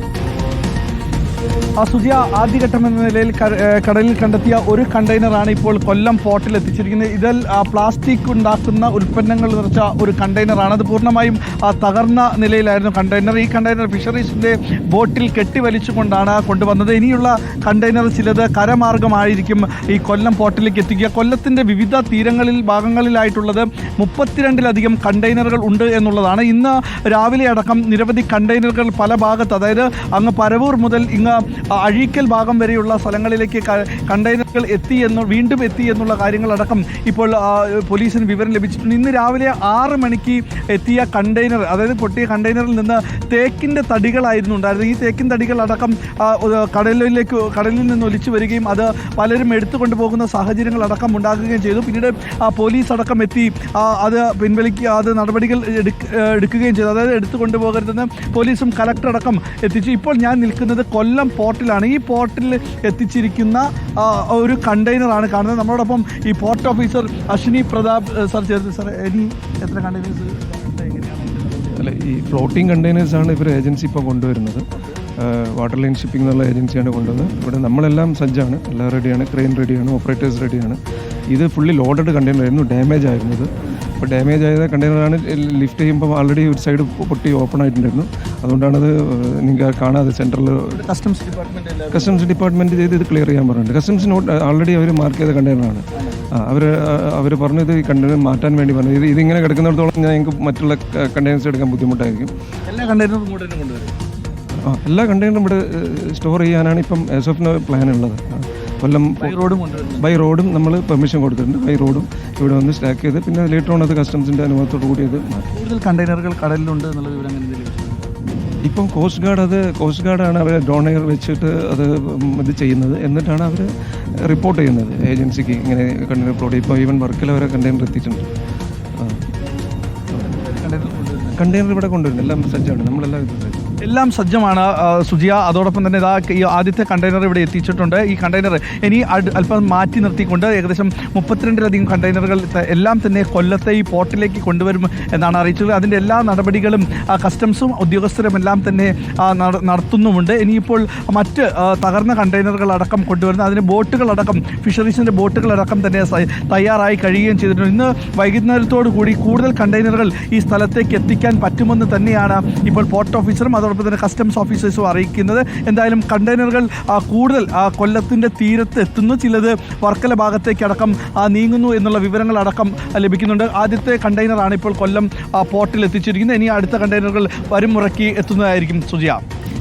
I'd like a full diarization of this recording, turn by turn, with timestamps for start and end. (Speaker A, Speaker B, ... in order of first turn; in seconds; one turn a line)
Speaker A: 1.8-71.7
Speaker B: 71.7-74.7
Speaker B: 75.2-80.8
Speaker B: 81.3-90.8
Speaker A: 90.8-92.2
Speaker B: 91.9-102.3
Speaker A: 102.7-103.9
Speaker B: 104.6-109.4
Speaker A: 109.2-110.1
Speaker B: 110.0-115.5
Speaker A: 115.5-118.1
Speaker B: 118.7-123.7
Speaker B: 124.2-128.3
Speaker B: 129.0-129.2
Speaker A: 130.4-131.4
Speaker B: 131.4-133.6
Speaker A: 133.8-179.2